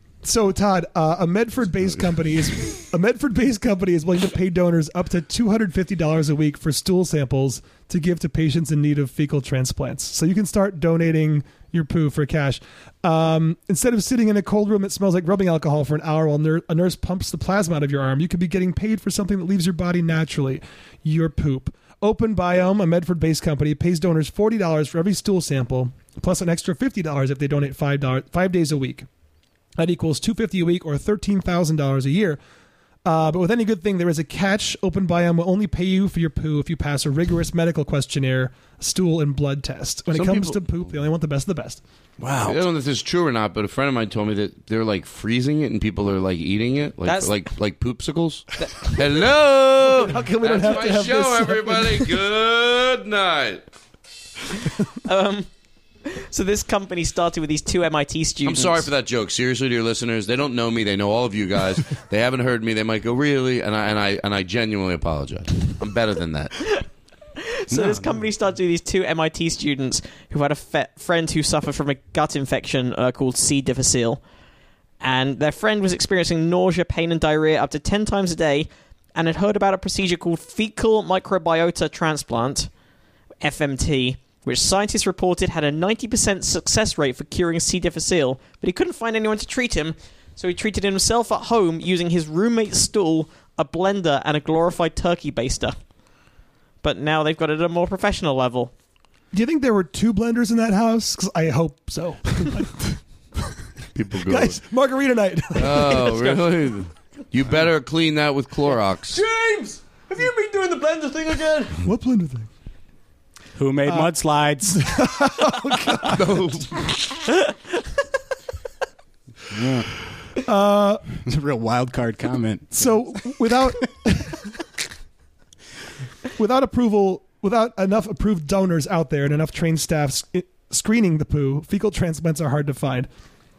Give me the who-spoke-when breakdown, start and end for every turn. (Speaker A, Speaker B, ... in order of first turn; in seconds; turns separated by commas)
Speaker A: 0.2-29.1, Speaker A: 29.8-32.4, Speaker A: 33.0-41.8, Speaker B: 40.1-40.6, Speaker C: 42.2-42.6, Speaker B: 42.4-53.6, Speaker D: 47.0-47.3, Speaker D: 48.6-48.9, Speaker A: 49.8-52.1, Speaker D: 55.0-55.5, Speaker D: 56.0-58.9, Speaker B: 58.5-66.7, Speaker D: 67.4-74.2, Speaker C: 67.7-68.1, Speaker D: 75.0-82.7, Speaker D: 83.4-95.8, Speaker D: 96.8-98.7, Speaker A: 99.3-103.0, Speaker B: 103.9-104.6, Speaker A: 104.2-106.4, Speaker B: 105.5-109.3, Speaker B: 110.1-111.7, Speaker A: 111.8-112.5, Speaker C: 113.5-114.8, Speaker A: 113.8-114.1, Speaker A: 114.6-116.4, Speaker B: 115.9-117.3, Speaker C: 119.5-119.9, Speaker A: 120.4-121.0, Speaker C: 121.1-123.3, Speaker A: 122.8-124.6, Speaker A: 126.3-133.1